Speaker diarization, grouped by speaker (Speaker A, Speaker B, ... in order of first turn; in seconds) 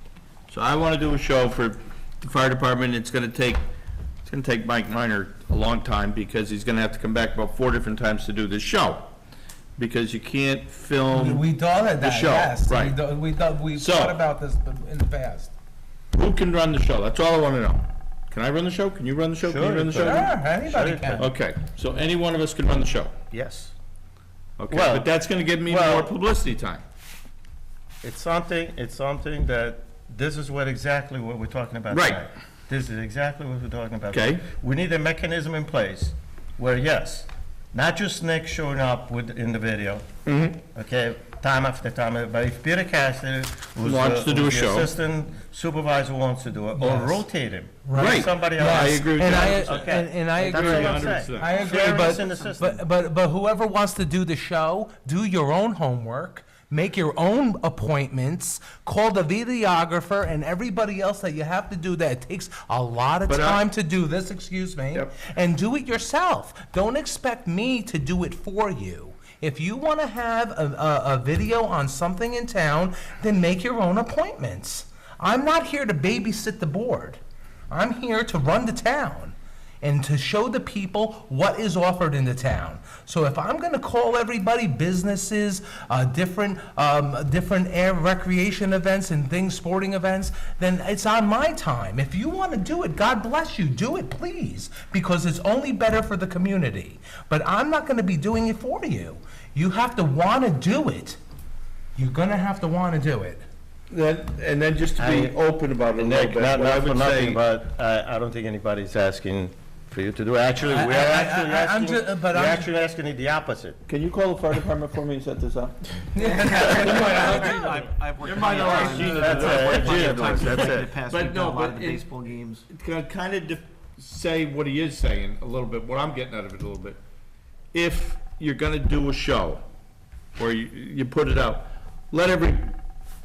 Speaker A: 0.5-3.6, 4.2-9.1, 9.8-11.4, 12.0-13.0, 13.8-14.2, 16.1-20.3, 21.2-23.1, 24.6-26.8, 31.9-32.2, 34.1-34.4, 40.3-40.6, 43.8-44.9, 48.0-51.6, 63.3-63.6, 103.9-107.4, 113.9-122.1, 122.7-127.0, 127.7-129.6, 130.4-132.8
Speaker B: 11.1-15.5, 20.1-21.3, 46.8-47.2, 47.9-101.2, 102.0-103.4, 110.7-112.7, 116.1-117.8, 118.6-119.5
Speaker C: 19.4-21.3, 23.3-23.7, 24.7-25.1, 25.6-26.1, 28.0-40.1, 40.7-52.8, 105.0-113.8, 119.0-120.9
Speaker D: 51.4-52.5, 116.5-122.7